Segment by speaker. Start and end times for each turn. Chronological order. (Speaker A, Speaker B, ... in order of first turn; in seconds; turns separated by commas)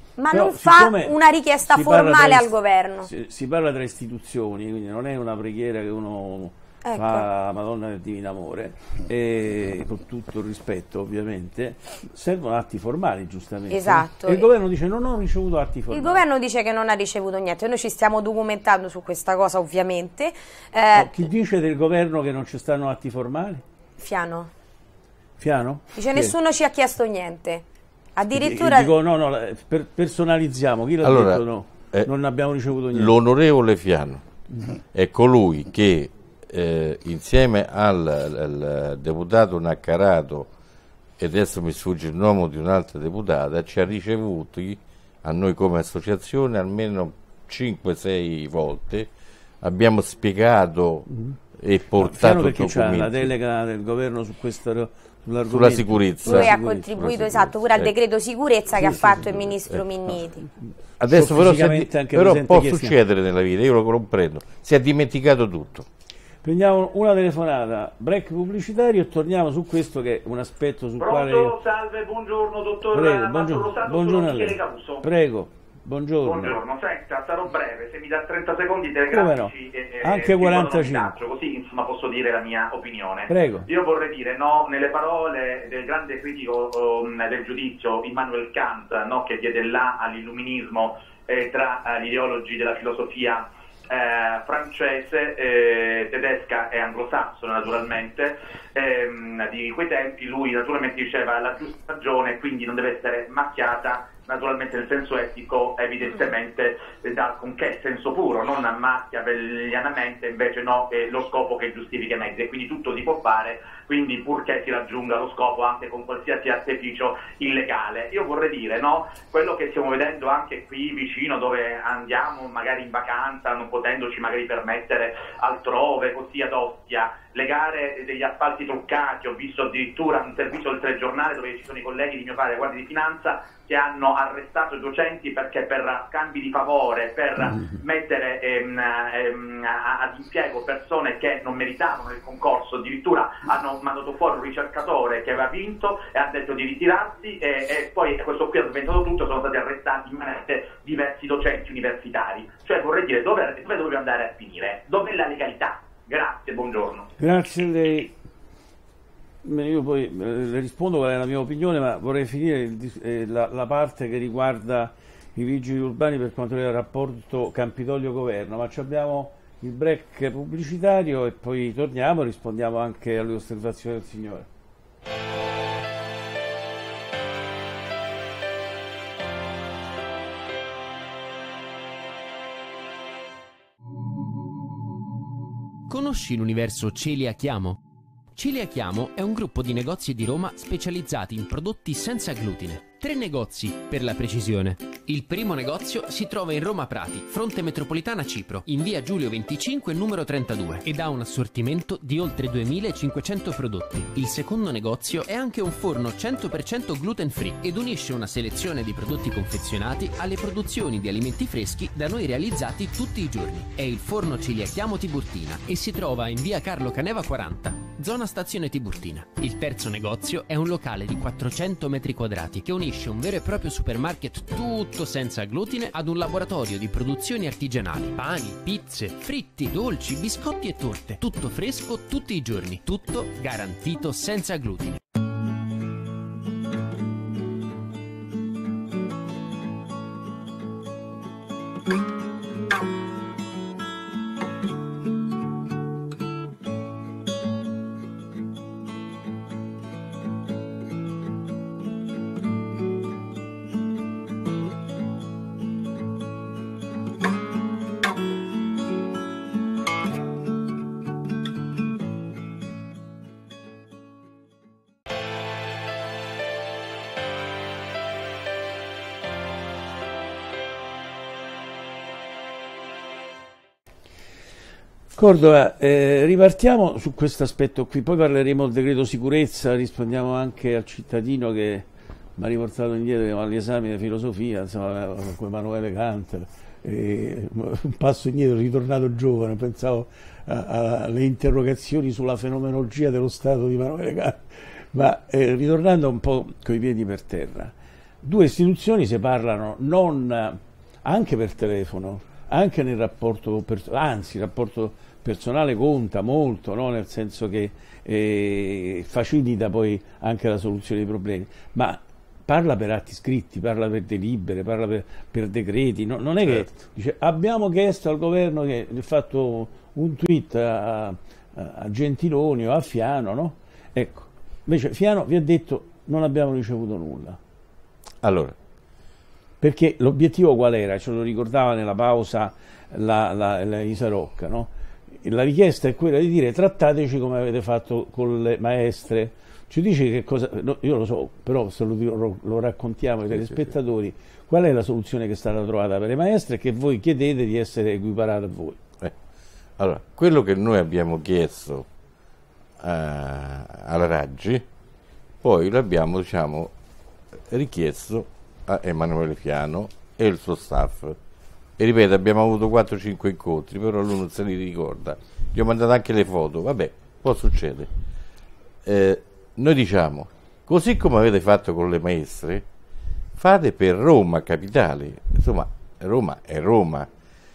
Speaker A: 0.2-3.1, Speaker B: 0.3-1.2, Speaker B: 1.7-2.5, Speaker B: 3.0-16.2, Speaker A: 6.8-7.2, Speaker A: 13.7-14.5, Speaker A: 15.9-21.2, Speaker B: 20.9-23.6, Speaker A: 24.0-24.5, Speaker B: 25.4-26.4, Speaker A: 25.9-27.6, Speaker A: 28.2-28.9, Speaker B: 28.3-33.1, Speaker C: 31.0-32.1, Speaker C: 32.9-34.2, Speaker C: 34.9-40.5, Speaker C: 41.2-49.1, Speaker C: 49.6-53.3, Speaker B: 52.0-56.9, Speaker C: 55.5-57.9, Speaker A: 56.2-60.4, Speaker C: 59.0-59.8, Speaker C: 61.0-65.9, Speaker B: 61.1-63.0, Speaker B: 66.4-71.5, Speaker D: 71.0-75.0, Speaker B: 72.9-76.6, Speaker D: 76.2-157.1, Speaker B: 79.1-81.1, Speaker B: 83.3-83.7, Speaker B: 137.5-137.8, Speaker B: 157.2-158.1, Speaker B: 159.4-174.5, Speaker E: 185.9-187.8, Speaker E: 188.3-235.0, Speaker B: 275.1-281.9, Speaker B: 282.4-294.4, Speaker B: 294.9-297.7, Speaker B: 298.2-327.4, Speaker C: 328.2-328.6, Speaker B: 329.6-334.7, Speaker B: 335.2-348.8, Speaker C: 343.3-343.7, Speaker C: 349.8-351.9, Speaker C: 352.8-354.6, Speaker C: 355.4-356.7, Speaker C: 357.5-361.2, Speaker C: 361.8-367.9, Speaker C: 368.9-372.6, Speaker C: 373.4-377.1